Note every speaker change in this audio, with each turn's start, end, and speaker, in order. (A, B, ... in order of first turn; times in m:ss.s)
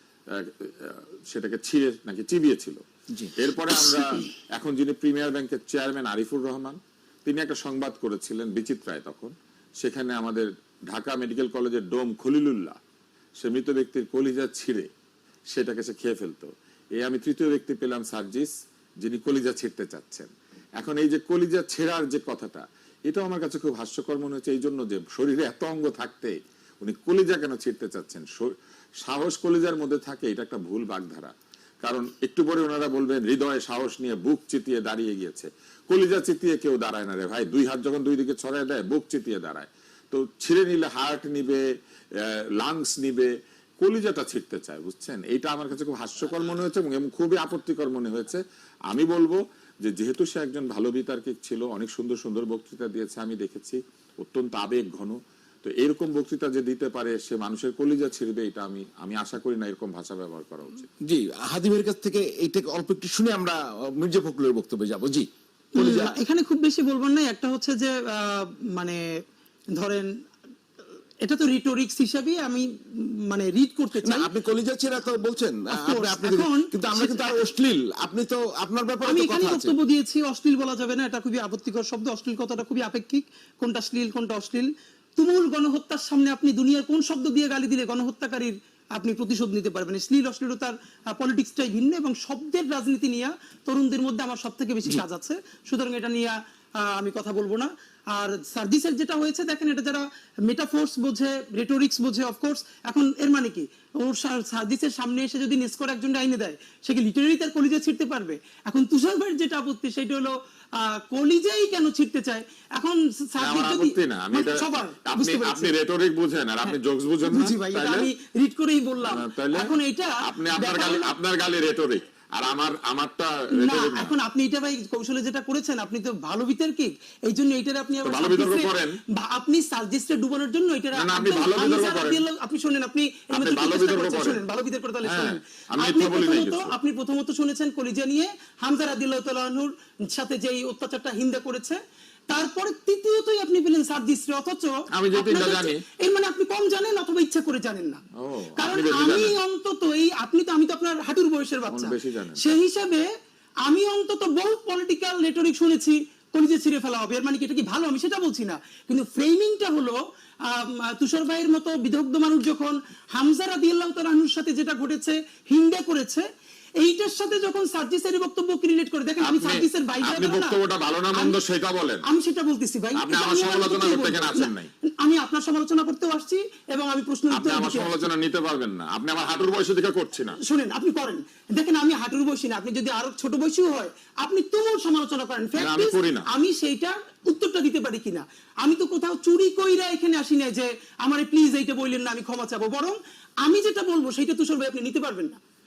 0:00.3-0:02.8 A
0:03.4-0:12.8 A
0:03.8-0:04.1 B
0:13.4-0:14.9 A
0:15.5-0:18.5 A
0:19.0-0:41.6 A
0:42.2-1:00.9 A
1:01.0-1:06.2 B
1:05.7-1:09.0 C
1:09.8-1:10.1 C
1:11.2-1:14.3 C
1:14.0-1:19.7 B
1:15.7-1:17.4 C
1:19.0-1:55.7 C
1:53.4-1:58.1 A
1:56.6-2:01.1 C
1:59.0-2:04.1 A
2:03.6-2:21.8 C
2:08.0-2:09.0 A
2:10.9-2:12.2 A
2:13.3-2:14.4 A
2:15.0-2:16.7 A
2:22.3-2:28.0 C
2:24.9-2:25.8 A
2:28.2-2:29.3 A
2:28.6-2:33.0 C
2:31.7-2:32.5 A
2:33.6-2:46.2 C
2:46.8-2:50.6 C
2:49.2-2:52.0 A
2:51.1-2:51.4 C
2:52.0-2:58.1 C
2:53.0-2:54.7 A
2:57.3-3:00.4 A
3:00.4-3:15.4 C
3:05.6-3:06.3 A